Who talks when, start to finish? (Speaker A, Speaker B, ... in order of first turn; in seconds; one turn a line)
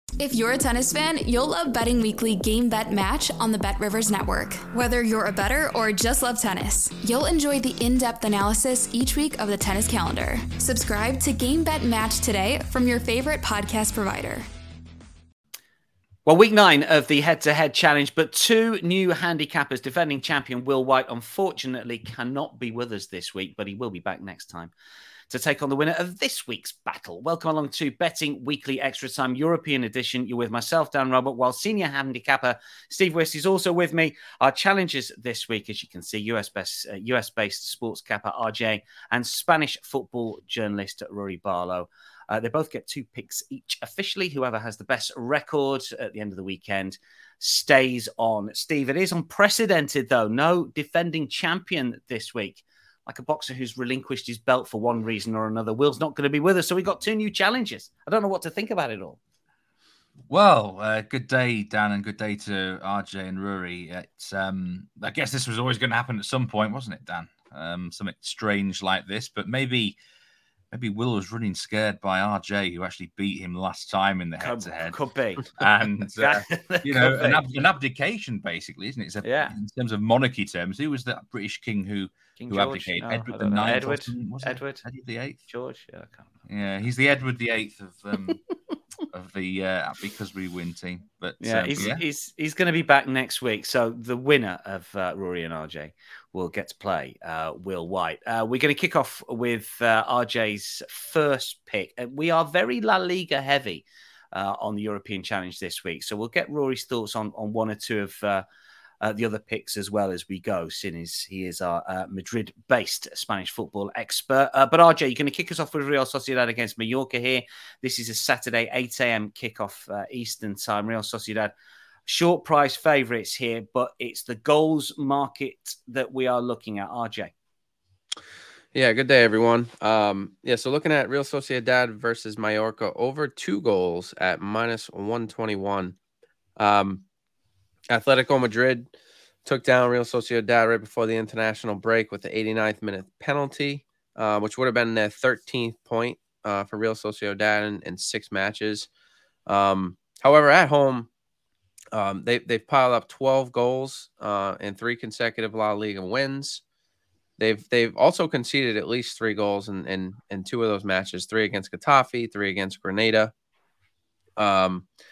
Speaker A: 0.2-14.4
Speaker B: 16.2-24.7
Speaker B: 25.3-59.2
Speaker C: 60.3-70.0
Speaker C: 70.7-75.0
Speaker B: 74.4-77.4
Speaker C: 75.6-85.4
Speaker B: 79.2-79.5
Speaker B: 82.4-84.8
Speaker B: 85.5-86.2
Speaker C: 86.5-88.4
Speaker C: 89.1-92.0
Speaker B: 91.4-108.4
Speaker B: 109.0-121.5
Speaker B: 122.0-127.3
Speaker D: 128.7-135.9
Speaker D: 136.6-137.0
Speaker D: 137.9-138.9
Speaker D: 139.4-148.9
Speaker D: 149.4-151.1
Speaker D: 151.9-156.6
Speaker D: 157.4-163.3
Speaker D: 164.4-164.8